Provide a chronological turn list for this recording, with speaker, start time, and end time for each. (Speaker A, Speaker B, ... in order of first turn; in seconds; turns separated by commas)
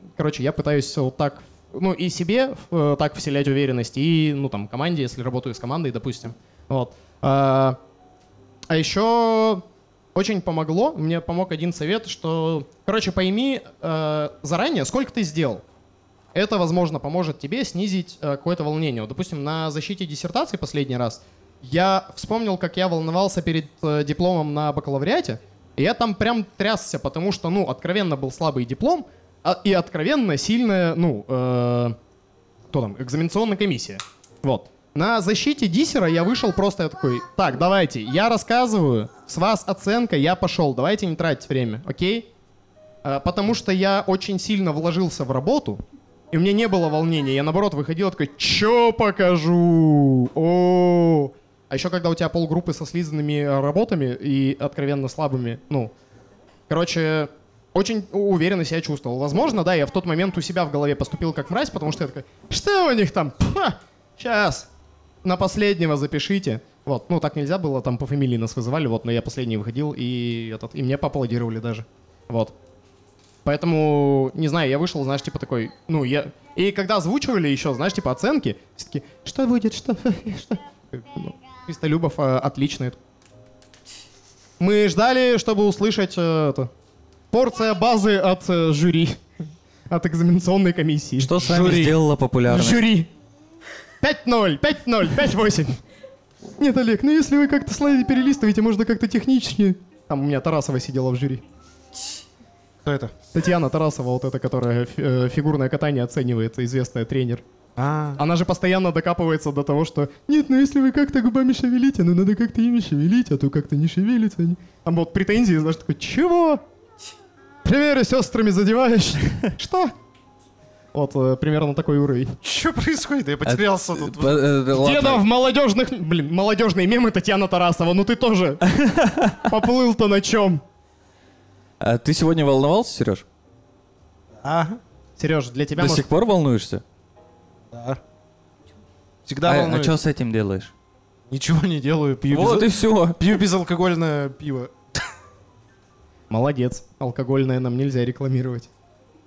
Speaker A: 0.2-7.8, Speaker A: 8.7-9.6, Speaker A: 10.1-15.6, Speaker A: 16.3-31.9, Speaker A: 32.7-42.3, Speaker A: 43.0-55.9, Speaker A: 56.7-64.7, Speaker A: 65.2-72.5, Speaker A: 73.4-83.0, Speaker A: 84.6-86.7, Speaker A: 87.3-89.2, Speaker A: 89.9-91.8, Speaker B: 91.2-92.8, Speaker C: 91.4-92.0, Speaker A: 92.5-93.1, Speaker A: 94.0-95.8, Speaker A: 96.6-101.4, Speaker C: 102.8-103.1, Speaker A: 103.3-107.4, Speaker C: 107.8-108.2, Speaker A: 108.2-116.6, Speaker A: 117.6-119.9, Speaker A: 120.9-122.4, Speaker C: 122.4-124.5, Speaker B: 123.4-125.2, Speaker A: 124.8-128.6, Speaker B: 128.7-129.4, Speaker A: 129.4-130.6, Speaker B: 131.8-133.2, Speaker C: 134.4-134.8, Speaker A: 135.2-136.1, Speaker B: 135.8-136.8, Speaker C: 137.7-138.0, Speaker C: 139.2-139.9, Speaker B: 139.4-140.7, Speaker C: 141.3-145.0, Speaker B: 142.3-143.2, Speaker A: 146.3-148.7